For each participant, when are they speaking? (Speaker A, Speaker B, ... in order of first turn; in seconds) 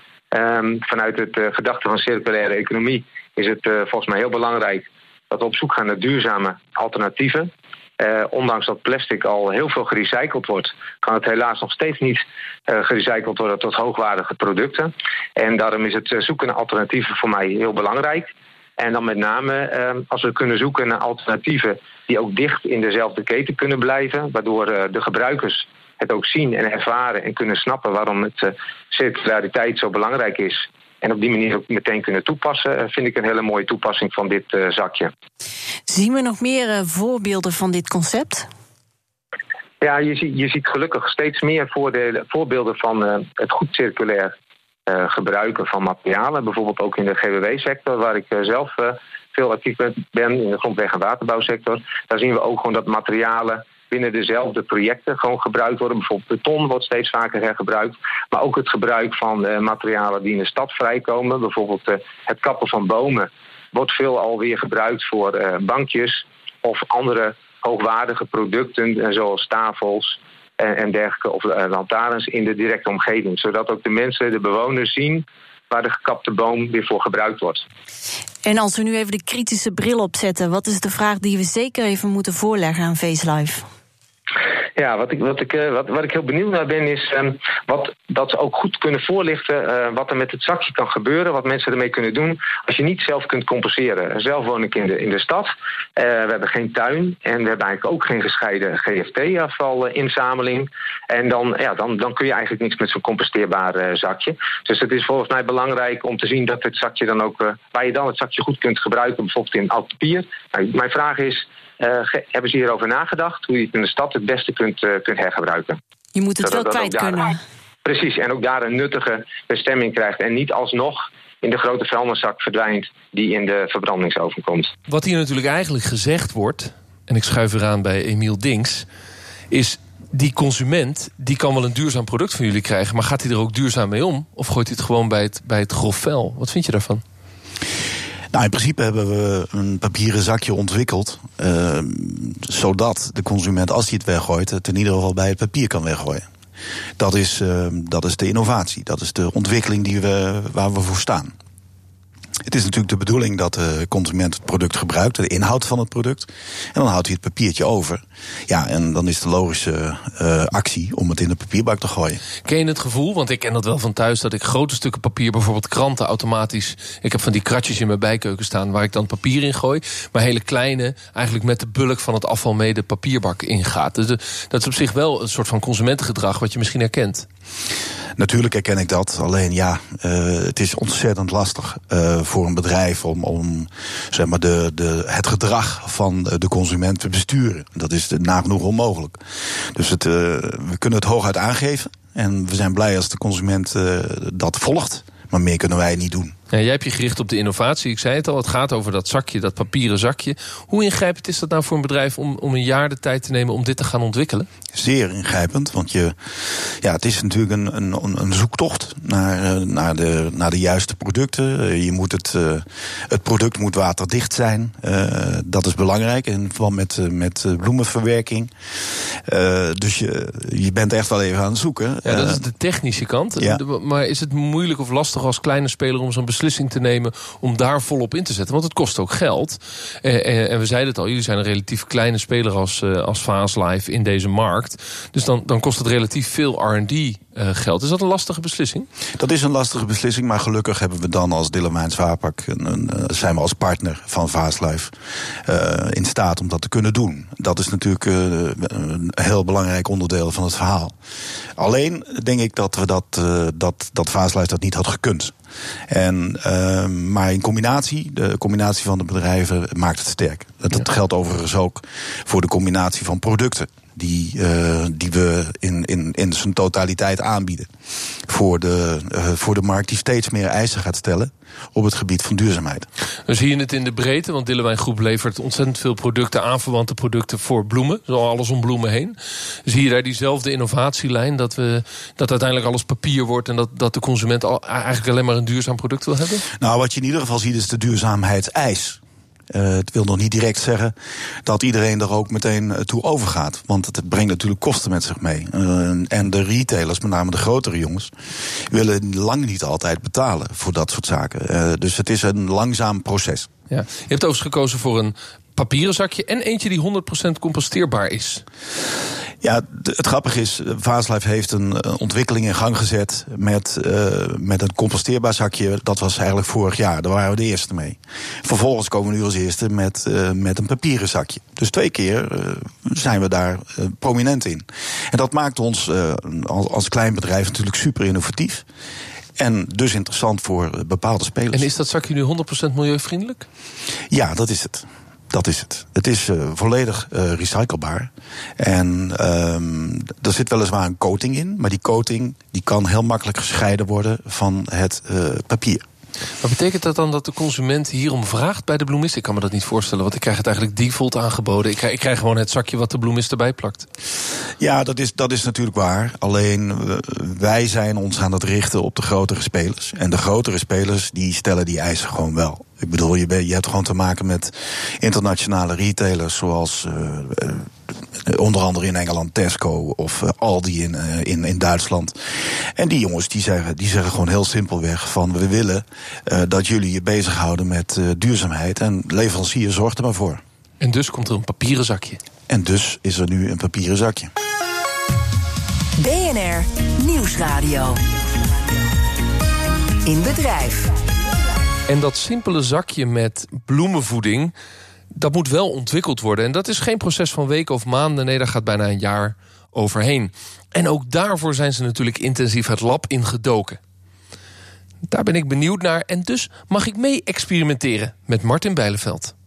Speaker A: 0.3-35.1, 39.8-44.3, 44.9-77.6, 84.8-115.8, 116.4-117.2, 117.8-124.7
Speaker B: 35.9-38.5, 78.4-83.7, 116.1-117.4
Speaker C: 124.9-128.8, 129.5-137.0, 162.4-177.3, 196.5-204.5, 222.0-238.9, 273.3-286.4, 303.7-308.4, 331.5-333.5, 346.4-353.9, 380.8-382.2, 391.9-394.5, 395.1-403.8, 405.1-409.3
Speaker D: 138.3-146.2, 147.0-151.3, 152.4-162.2, 178.2-189.2, 189.7-196.3, 204.7-218.5, 219.1-222.4, 239.2-244.9, 245.4-250.9, 251.6-255.3, 255.9-267.7, 268.3-272.9, 286.6-289.0, 289.5-298.1, 298.7-303.5, 309.4-328.6, 329.4-331.7, 334.1-345.8, 354.6-367.7, 368.2-380.4, 382.5-384.3
Speaker E: 386.0-388.0, 390.0-390.9